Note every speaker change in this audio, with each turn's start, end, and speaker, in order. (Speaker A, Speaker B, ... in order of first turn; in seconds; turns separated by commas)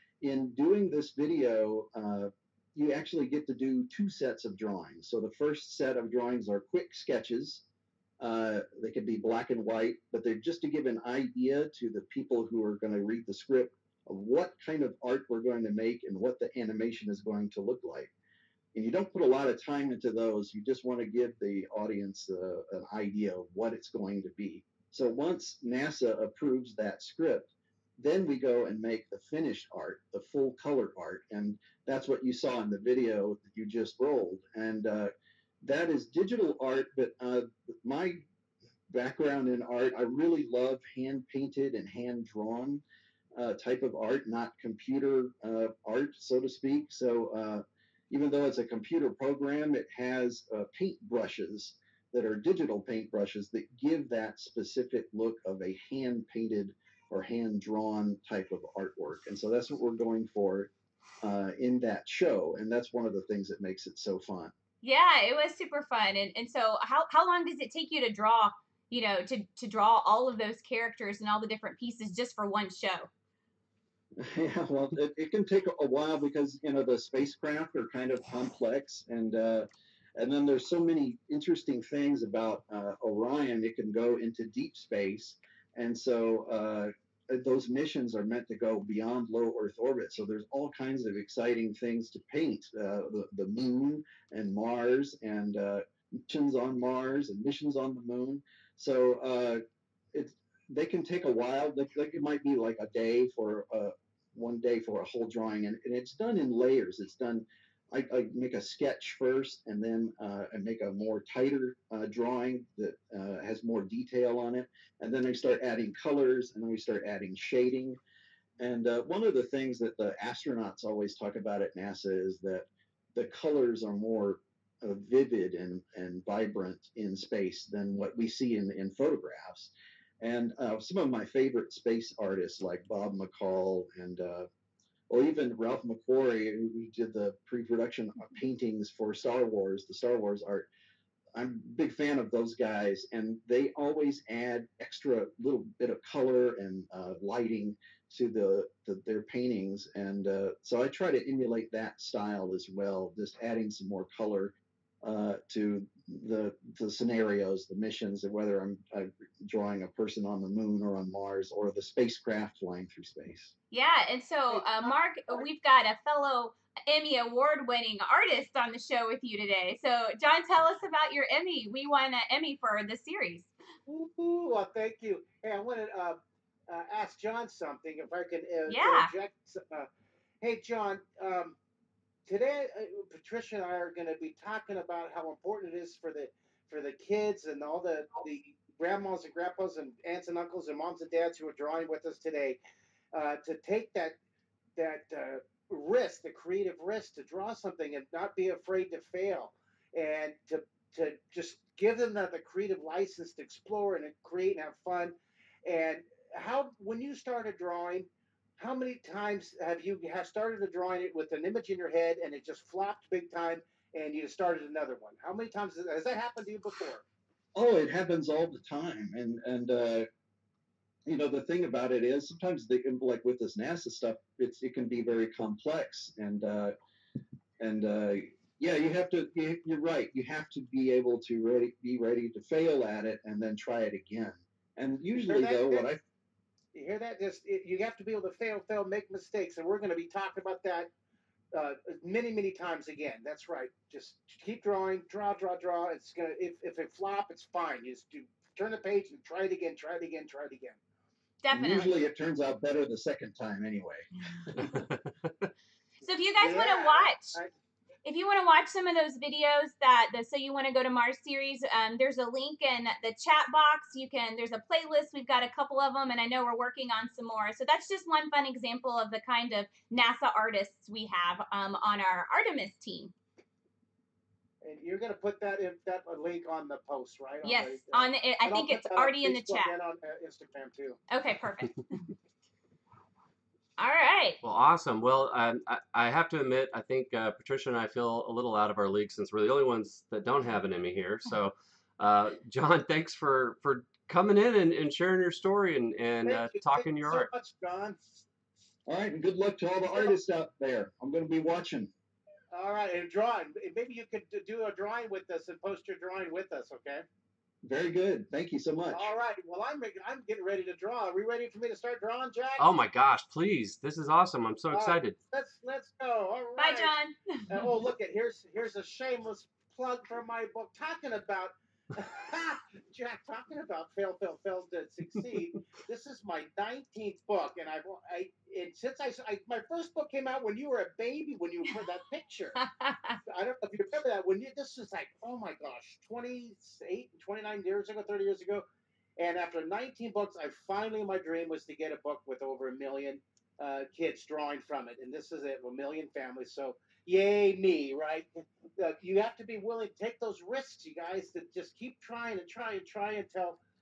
Speaker A: 0.2-7.6, Speaker A: 8.2-18.1, Speaker A: 18.7-35.1, Speaker A: 35.6-38.2, Speaker A: 38.9-42.8, Speaker A: 43.4-60.7, Speaker A: 61.2-64.5, Speaker B: 64.8-73.1, Speaker A: 74.2-99.6, Speaker A: 100.1-118.0, Speaker A: 118.6-134.5, Speaker A: 135.1-140.7, Speaker A: 141.3-163.5, Speaker B: 163.7-173.5, Speaker C: 164.5-165.5, Speaker C: 173.9-179.9, Speaker B: 178.7-179.1, Speaker C: 180.4-181.6, Speaker C: 182.3-192.6, Speaker C: 193.1-194.2, Speaker C: 194.8-217.0, Speaker A: 217.6-220.1, Speaker A: 221.1-226.7, Speaker A: 227.6-236.0, Speaker C: 235.2-235.9, Speaker C: 236.7-240.9, Speaker C: 241.5-250.8, Speaker B: 251.4-251.9, Speaker A: 251.5-254.1, Speaker B: 256.0-257.4, Speaker C: 256.4-257.5, Speaker B: 258.1-273.1, Speaker C: 274.6-281.0, Speaker B: 277.4-279.7, Speaker B: 281.1-282.1, Speaker B: 283.8-284.4, Speaker D: 284.4-297.3, Speaker C: 296.2-298.0, Speaker A: 298.9-301.9, Speaker C: 302.5-307.1, Speaker A: 307.6-309.1, Speaker C: 308.9-312.7, Speaker D: 312.6-315.2, Speaker C: 314.7-316.9, Speaker B: 316.6-317.2, Speaker C: 317.5-332.6, Speaker B: 332.6-333.2, Speaker C: 333.3-338.6, Speaker C: 339.2-353.6